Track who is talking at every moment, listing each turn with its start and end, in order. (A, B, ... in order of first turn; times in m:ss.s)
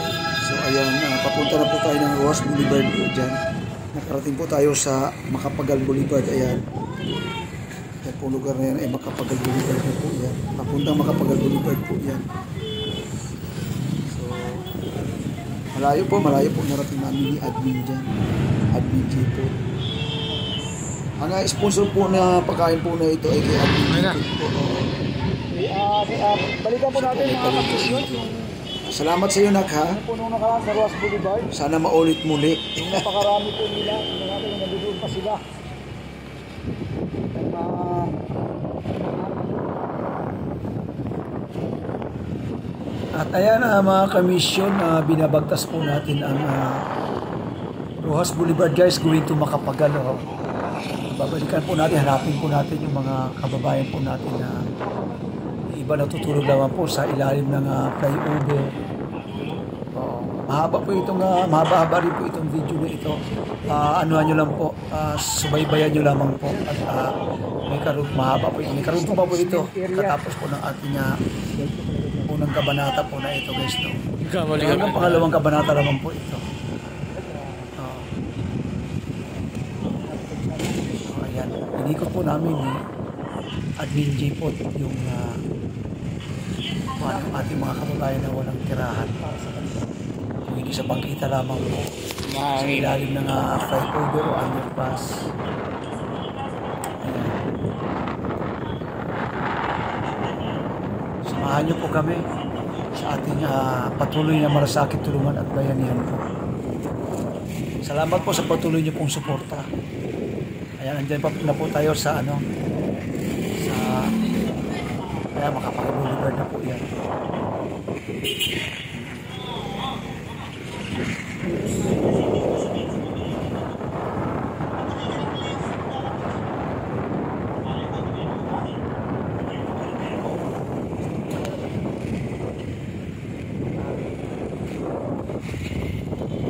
0:00.4-0:03.4 A
0:04.0-0:06.6 A
0:08.0-0:12.3 A
0:14.1-0:14.7 A
0:15.8-0:18.1 A
0:18.7-0:19.6 A
0:21.2-0:24.9 A
0:25.5-0:28.4 B
0:26.9-0:28.3 A
0:28.9-0:30.0 A
0:30.0-0:31.5 B
0:31.5-0:33.2 A
0:33.0-0:35.4 B
0:37.4-0:38.2 B
0:39.0-0:39.7 B
0:43.2-0:46.8 A
0:48.0-0:50.2 A
0:51.0-0:54.6 A
0:55.7-0:58.6 A
1:00.0-1:03.2 A
1:03.7-1:07.2 A
1:07.7-1:16.4 A
1:08.9-1:10.1 B
1:17.2-1:17.6 B
1:17.8-1:18.1 A
1:20.1-1:20.7 B
1:21.0-1:22.8 A
1:23.8-1:25.4 A
1:27.0-1:29.2 A
1:29.4-1:29.7 B
1:30.5-1:35.1 A
1:37.0-1:37.3 A
1:41.3-1:42.2 A
1:43.0-1:46.2 A
1:47.9-1:49.7 A
1:50.8-1:52.4 A
1:53.6-1:54.1 A
1:55.3-1:56.8 A